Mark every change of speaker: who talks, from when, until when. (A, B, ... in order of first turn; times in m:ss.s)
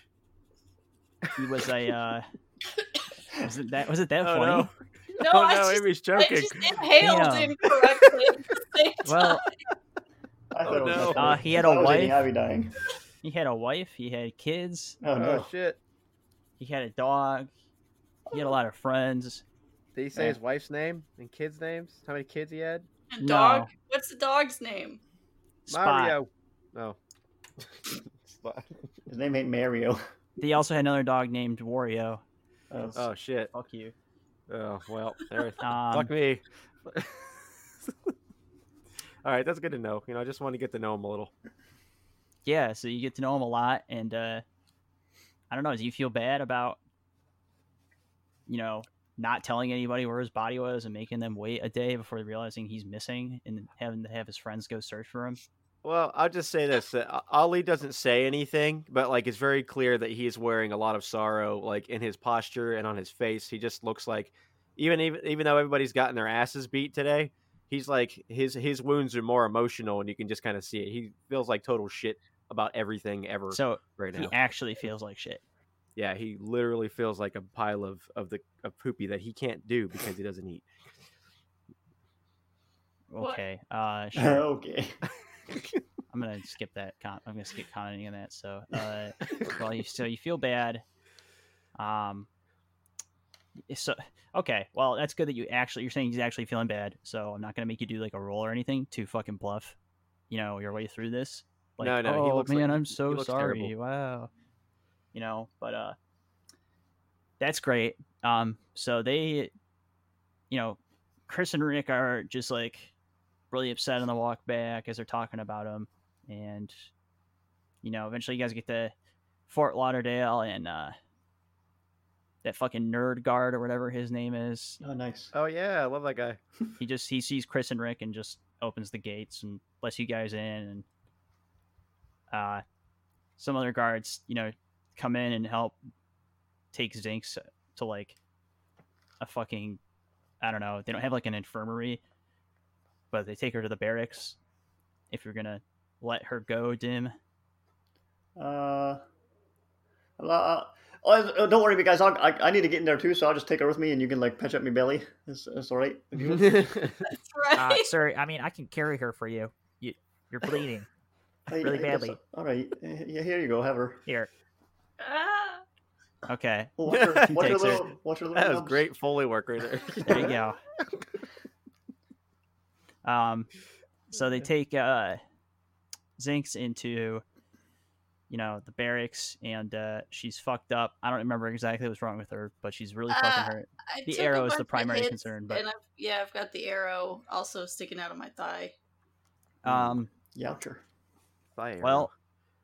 0:01.4-0:02.2 A
0:03.4-0:04.7 A
0:04.2-0:07.1 B
0:05.2-0:09.5 C
0:07.0-0:07.6 A
0:07.8-0:08.2 B
0:09.0-0:09.4 A
0:10.5-0:12.8 D
0:10.6-0:11.4 B
0:11.0-0:12.2 A
0:13.2-0:15.0 A
0:15.0-0:15.5 D
0:15.2-0:15.8 B
0:16.6-0:17.5 A
0:18.3-0:19.4 A
0:20.0-0:22.9 B
0:23.1-0:25.0 C
0:23.2-0:23.7 A
0:25.7-0:26.2 A
0:25.7-0:27.0 B
0:27.6-0:28.8 B
0:29.1-0:30.0 D
0:30.4-0:32.2 A
0:32.7-0:33.1 D
0:33.0-0:33.5 B
0:33.5-0:33.9 A
0:34.5-0:37.9 B
0:35.6-0:36.1 A
0:39.2-0:41.3 B
0:42.4-0:44.4 A
0:45.5-0:46.8 A
0:48.5-0:55.4 A
0:55.8-1:14.3 B
1:13.5-1:15.4 A
1:16.0-1:20.7 B
1:23.1-1:24.5 A
1:24.2-1:25.0 D
1:26.1-1:30.8 A
1:31.8-1:32.3 A
1:33.7-1:39.8 A
1:40.3-1:44.3 A
1:41.8-1:43.7 B
1:45.1-1:46.0 A
1:47.4-1:49.5 A
1:50.5-1:52.9 A
1:53.5-1:56.9 A
1:57.8-1:58.9 A
1:59.5-2:01.0 A
2:02.4-2:04.8 A
2:04.8-2:05.3 D
2:05.3-2:06.4 B
2:06.8-2:10.8 A
2:12.3-2:12.6 A
2:13.4-2:15.8 A
2:16.7-2:18.2 A
2:19.2-2:19.8 A
2:20.4-2:22.0 A
2:23.1-2:24.4 A
2:25.1-2:27.1 A
2:28.4-2:29.0 D
2:30.2-2:36.9 D
2:36.4-2:37.0 B
2:37.1-2:37.9 C
2:37.5-2:40.9 E
2:41.5-2:44.0 D
2:41.6-2:42.2 E
2:45.0-2:45.6 C
2:46.3-2:47.8 A
2:46.8-2:48.8 D
2:46.9-2:47.2 B
2:48.3-2:50.4 B
2:50.1-2:50.6 A
2:53.0-2:53.5 A
2:54.1-2:55.2 A
2:56.2-2:57.2 A
2:58.3-3:05.6 A
3:03.1-3:08.7 C
3:09.6-3:10.1 A
3:09.7-3:10.0 B
3:10.3-3:10.8 D
3:11.6-3:12.1 B
3:11.8-3:12.1 A